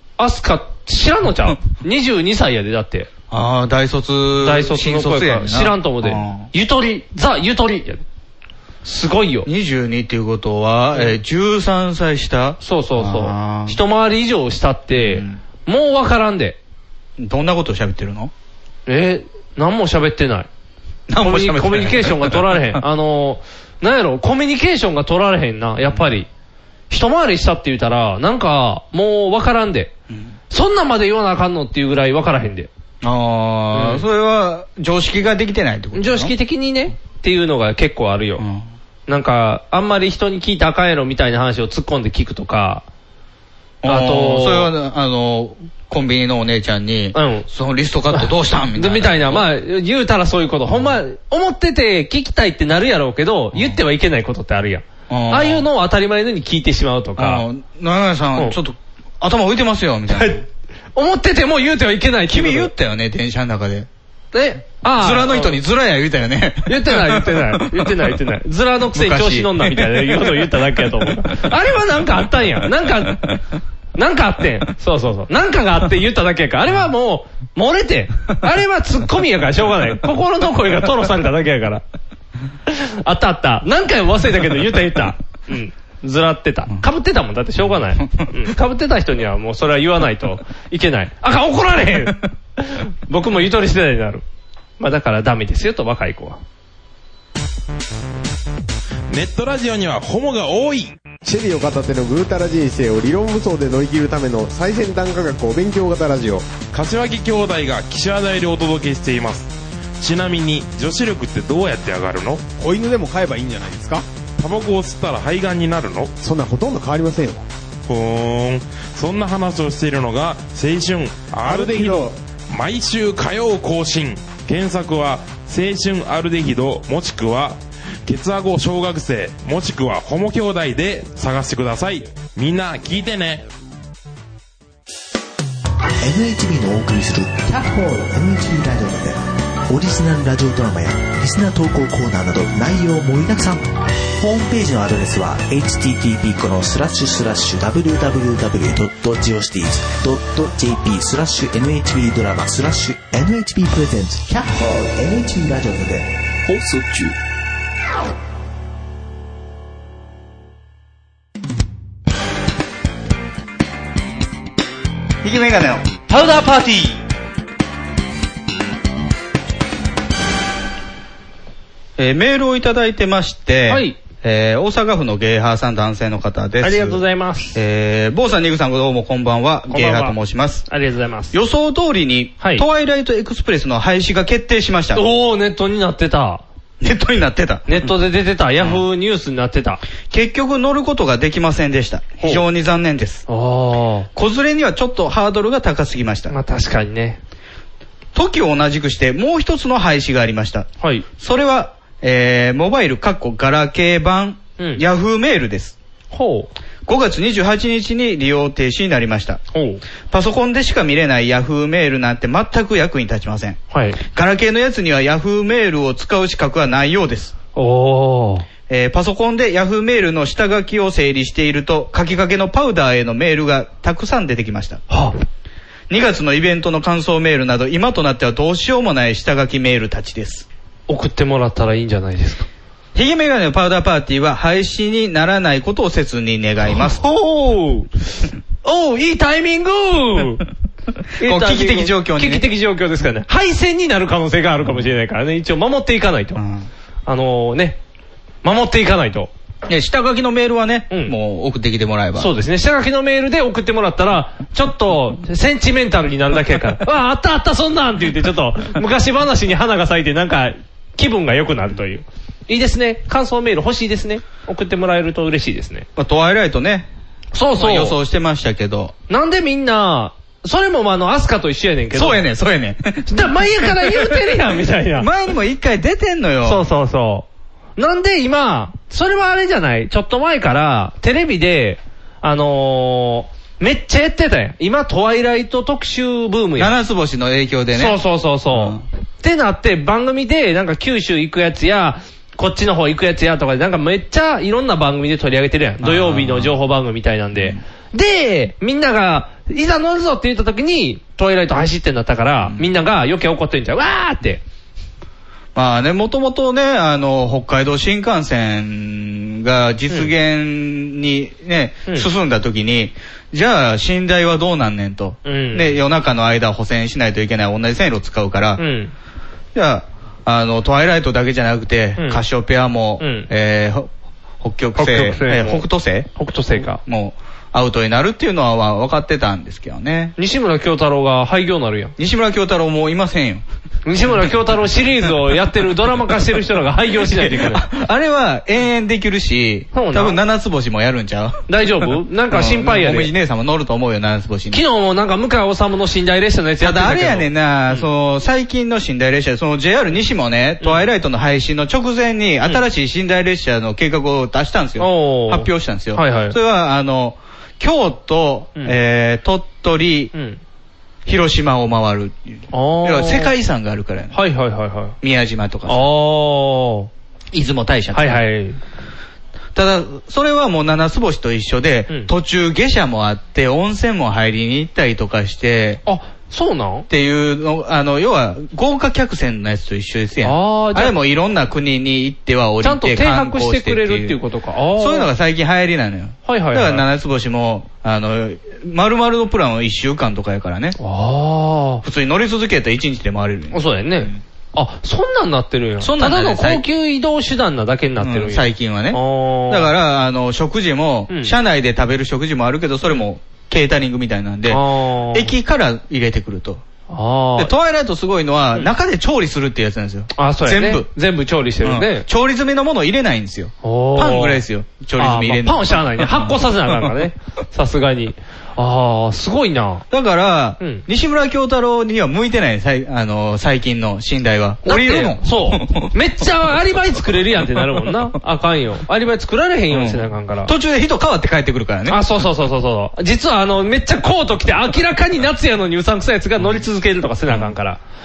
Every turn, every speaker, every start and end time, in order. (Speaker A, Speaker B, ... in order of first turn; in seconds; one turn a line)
Speaker A: 0.2-3.1
Speaker B: 3.3-6.5
Speaker A: 4.4-8.0
Speaker A: 8.8-9.5
Speaker B: 9.4-13.8
Speaker A: 12.6-16.6
Speaker B: 14.9-15.4
Speaker B: 17.2-18.3
Speaker A: 18.9-20.5
Speaker B: 21.1-22.8
Speaker A: 21.2-26.3
Speaker A: 26.9-29.9
Speaker A: 30.5-32.7
Speaker B: 33.0-36.3
Speaker A: 33.7-34.0
Speaker A: 35.9-38.4
Speaker B: 38.4-38.6
Speaker A: 39.1-42.8
Speaker B: 43.8-49.5
Speaker A: 43.9-44.7
Speaker A: 47.1-47.5
Speaker A: 48.1-57.4
Speaker B: 50.7-51.0
Speaker B: 55.1-55.6
Speaker B: 57.2-60.4
Speaker A: 60.1-60.4
Speaker A: 60.9-62.7
Speaker B: 62.3-63.9
Speaker A: 64.3-65.6
Speaker B: 65.0-68.0
Speaker A: 66.7-73.3
Speaker B: 68.9-70.5
Speaker A: 73.9-81.8
Speaker A: 82.7-94.2
Speaker B: 87.6-88.3
Speaker A: 94.8-96.4
Speaker C: 99.1-101.0
Speaker D: 101.2-106.5
Speaker C: 106.7-112.4
Speaker D: 112.6-114.0
Speaker C: 114.4-116.1
Speaker D: 116.2-117.4
Speaker C: 117.9-133.4
Speaker D: 121.4-122.1
Speaker E: 136.0-143.7
Speaker E: 144.2-156.1
Speaker B: 165.2-167.0
Speaker B: 172.0-177.0
Speaker A: 173.7-174.0
Speaker A: 176.6-177.6
Speaker B: 177.5-180.7
Speaker A: 179.7-181.3
Speaker B: 181.3-185.0
Speaker A: 182.4-182.6
Speaker A: 184.9-186.4
Speaker B: 186.8-187.9
Speaker A: 187.7-189.8
Speaker B: 190.1-193.2
Speaker A: 193.3-194.1
Speaker B: 194.1-196.3
Speaker A: 196.3-197.2
Speaker B: 198.1-205.8
Speaker A: 200.8-201.1
Speaker A: 206.1-206.5
Speaker B: 206.8-209.4
Speaker A: 209.5-209.8
Speaker B: 210.1-217.3
Speaker A: 213.7-214.0
Speaker A: 217.5-218.4
Speaker B: 218.7-224.8
Speaker A: 224.9-225.2
Speaker B: 225.9-230.5
Speaker A: 230.9-232.5
Speaker B: 232.9-237.0
Speaker A: 236.7-237.9
Speaker A: 238.6-240.4
Speaker A: 241.2-246.4
Speaker B: 241.2-242.4
Speaker B: 246.3-246.7
Speaker A: 247.1-247.8
Speaker A: 248.4-249.3
Speaker B: 249.7-252.3
Speaker A: 252.2-265.9
Speaker B: 265.9-266.9
Speaker A: 267.3-267.9
Speaker B: 267.5-268.9
Speaker A: 269.1-272.2
Speaker B: 271.9-274.4
Speaker A: 273.1-275.1
Speaker B: 274.9-276.6
Speaker A: 276.4-286.7
Speaker B: 286.6-288.0
Speaker A: 287.7-304.4
Speaker B: 288.5-288.8
Speaker B: 295.8-296.6
Speaker B: 297.3-297.6
Speaker B: 305.5-318.6
Speaker A: 315.2-315.8
Speaker A: 318.6-318.9
Speaker B: 319.5-323.9
Speaker A: 322.0-322.2
Speaker A: 323.0-323.3
Speaker B: 324.4-326.1
Speaker A: 324.8-326.8
Speaker B: 326.7-330.1
Speaker A: 330.2-331.9
Speaker B: 332.0-333.4
Speaker A: 333.9-337.7
Speaker B: 337.0-344.6
Speaker A: 339.7-340.2
Speaker A: 341.5-343.1
Speaker A: 344.5-347.9
Speaker B: 346.6-360.1
Speaker A: 354.8-356.4
Speaker A: 360.1-360.4
Speaker B: 361.1-364.1
Speaker A: 362.5-363.3
Speaker A: 364.1-364.9
Speaker B: 365.0-365.9
Speaker A: 365.7-366.9
Speaker B: 367.3-368.2
Speaker A: 367.9-368.6
Speaker B: 369.5-375.8
Speaker A: 375.9-376.9
Speaker B: 376.9-384.2
Speaker A: 380.2-380.9
Speaker A: 382.6-385.1
Speaker B: 384.8-390.8
Speaker A: 386.2-386.8
Speaker A: 390.8-391.8
Speaker B: 391.8-394.2
Speaker A: 393.5-399.7
Speaker B: 395.8-396.6
Speaker B: 398.0-406.6
Speaker A: 401.1-401.3
Speaker A: 404.5-405.3
Speaker A: 406.9-407.5
Speaker B: 407.4-410.9
Speaker A: 410.1-412.0
Speaker B: 411.6-416.9
Speaker A: 413.6-414.4
Speaker A: 415.0-419.8
Speaker B: 419.9-425.9
Speaker A: 424.6-430.5
Speaker B: 429.7-432.0
Speaker A: 431.9-437.8